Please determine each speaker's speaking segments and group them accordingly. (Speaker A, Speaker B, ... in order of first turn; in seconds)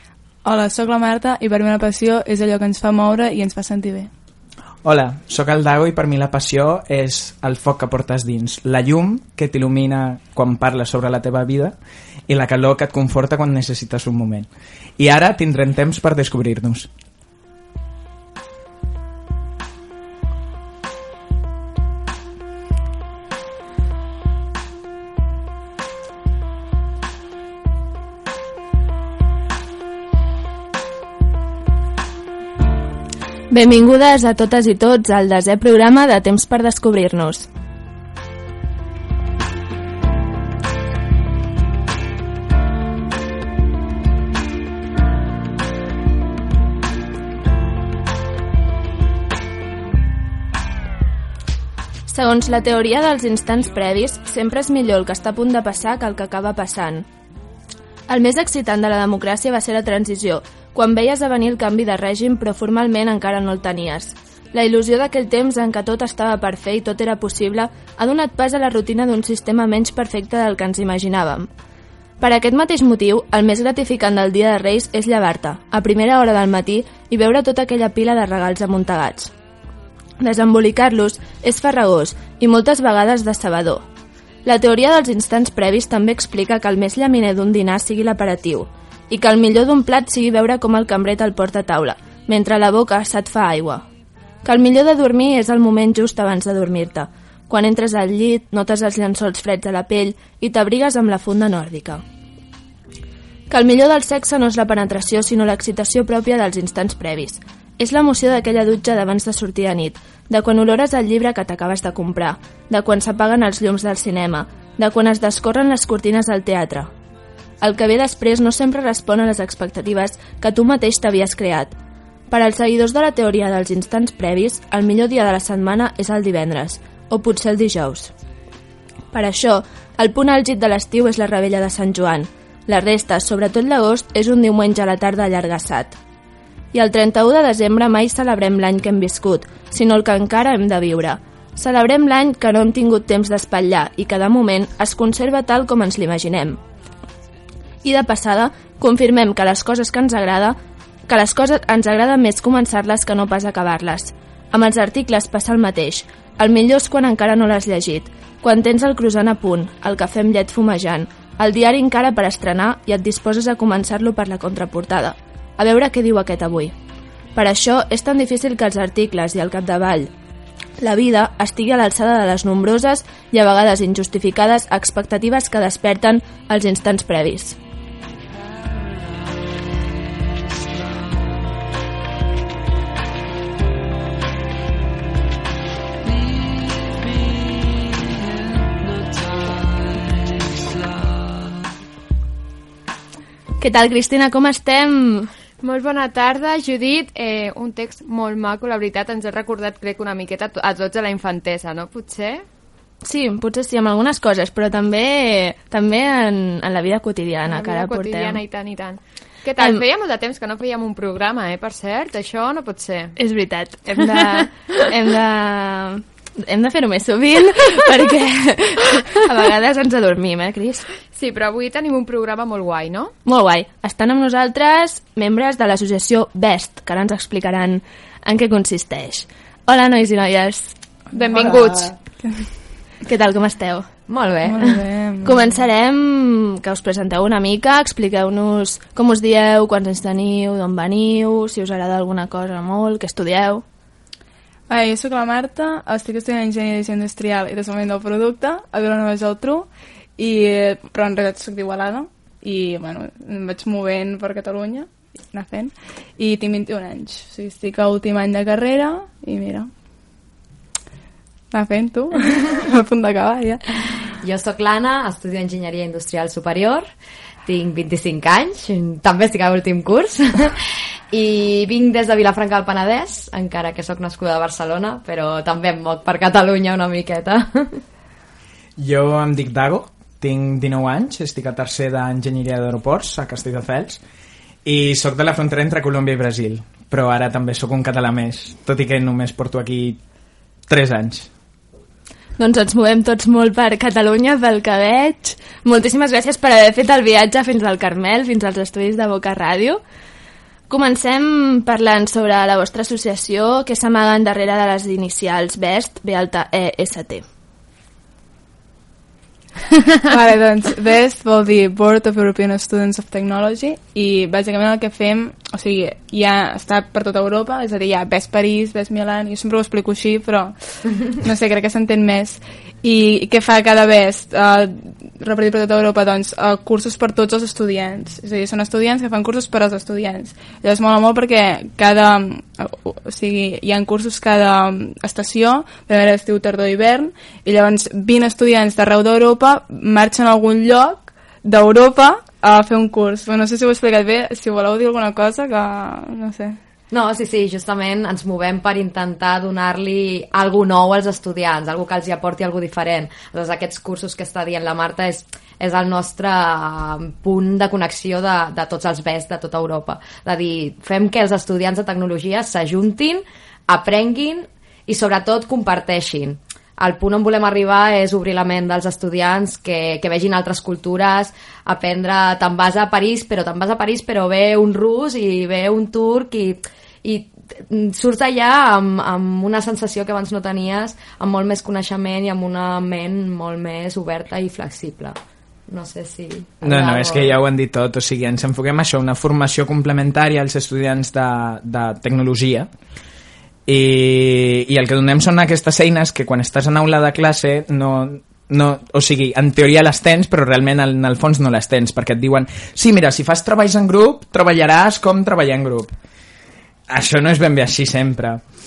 Speaker A: 0.4-4.1, 234.5-235.5, 244.7-259.7, 261.5-263.6, 310.1-346.6
Speaker B: 4.8-11.8, 12.3-16.9, 278.8-284.0, 284.6-290.0, 290.7-291.3, 386.6-392.7, 393.7-405.9, 406.9-408.4
Speaker C: 33.5-37.5, 52.1-57.1, 58.1-71.5, 72.2-79.3, 80.2-83.8, 84.5-93.8, 94.4-102.0, 103.5-116.9, 117.6-121.8, 122.3-128.1, 129.1-136.0, 136.7-146.6, 147.8-150.6, 151.1-166.7, 167.3-170.1, 170.8-177.6, 193.6-195.3, 203.0-208.4, 209.6-209.8, 213.2-220.9, 223.2-230.8, 231.3-231.7, 233.0-233.9, 235.2-243.6, 292.4-299.8, 300.7-307.2
Speaker D: 195.6-202.4, 207.5-213.1, 213.9-214.5, 221.1-223.1, 231.1-232.0
Speaker E: 234.1-234.6, 264.2-266.9, 267.5-270.6, 271.1-277.8, 346.9-387.4